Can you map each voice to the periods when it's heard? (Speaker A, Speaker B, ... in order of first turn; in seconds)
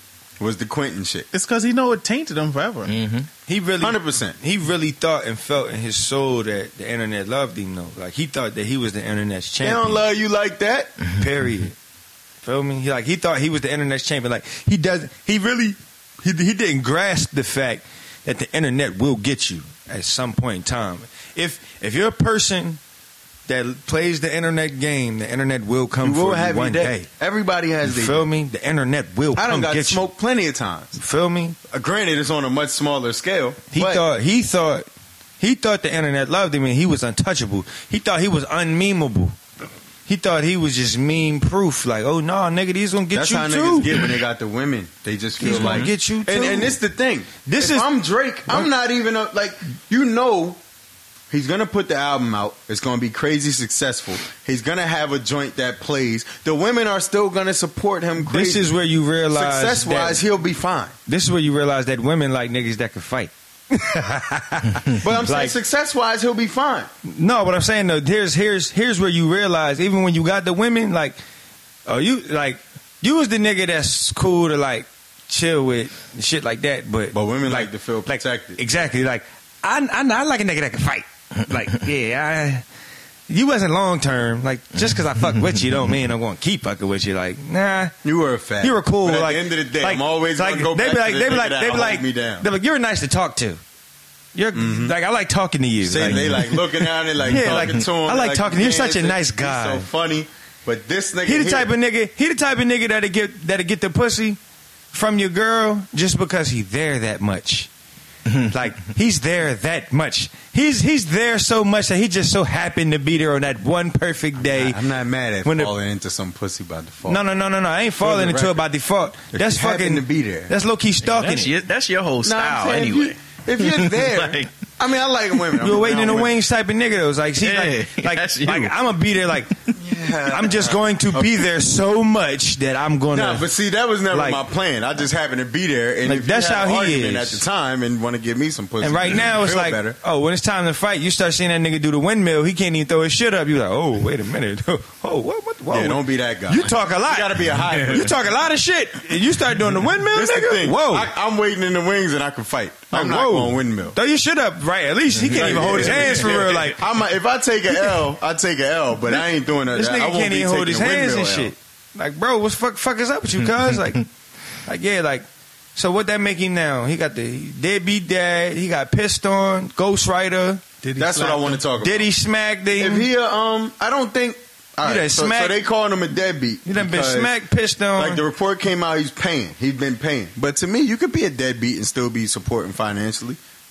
Speaker A: 0.4-1.3, 3.8-4.4, 9.6-10.9, 26.0-28.2, 29.3-31.0, 31.7-34.0, 43.1-50.6, 51.3-58.7, 59.3-60.9, 65.0-66.9, 77.1-78.6, 88.0-92.5, 94.5-94.9, 95.8-101.7, 114.4-117.2, 118.0-118.6, 119.3-120.5, 122.2-126.3, 129.7-131.4, 133.1-140.0, 145.7-148.1, 150.1-154.0, 155.3-161.5, 171.0-172.1, 172.8-177.3, 178.0-183.4
Speaker B: 1.3-2.9, 170.8-171.6
Speaker C: 2.9-3.3, 11.0-11.5, 45.5-45.9, 84.8-85.6, 96.0-96.5, 97.3-97.8, 121.0-124.5, 127.4-128.8, 147.7-148.1, 155.1-156.7, 163.4-164.0
Speaker D: 3.5-10.1, 11.2-11.7, 12.4-22.8, 23.5-27.1, 27.8-30.0, 30.9-31.6, 33.7-34.9, 35.4-39.4, 40.1-44.0, 45.4-46.8, 47.5-47.9, 58.2-60.2, 61.1-65.6, 67.1-71.2, 71.8-82.6, 83.3-87.9, 88.6-93.6, 94.3-96.6, 97.2-99.9, 101.2-104.4, 104.9-107.7, 108.5-114.8, 115.4-115.7, 117.1-121.5, 125.6-129.6, 130.3-133.5, 134.1-134.4, 136.0-137.4, 138.8-151.1, 152.9-156.8, 159.7-164.0, 164.7-170.6, 171.8-173.1, 174.8-175.6, 176.6-178.2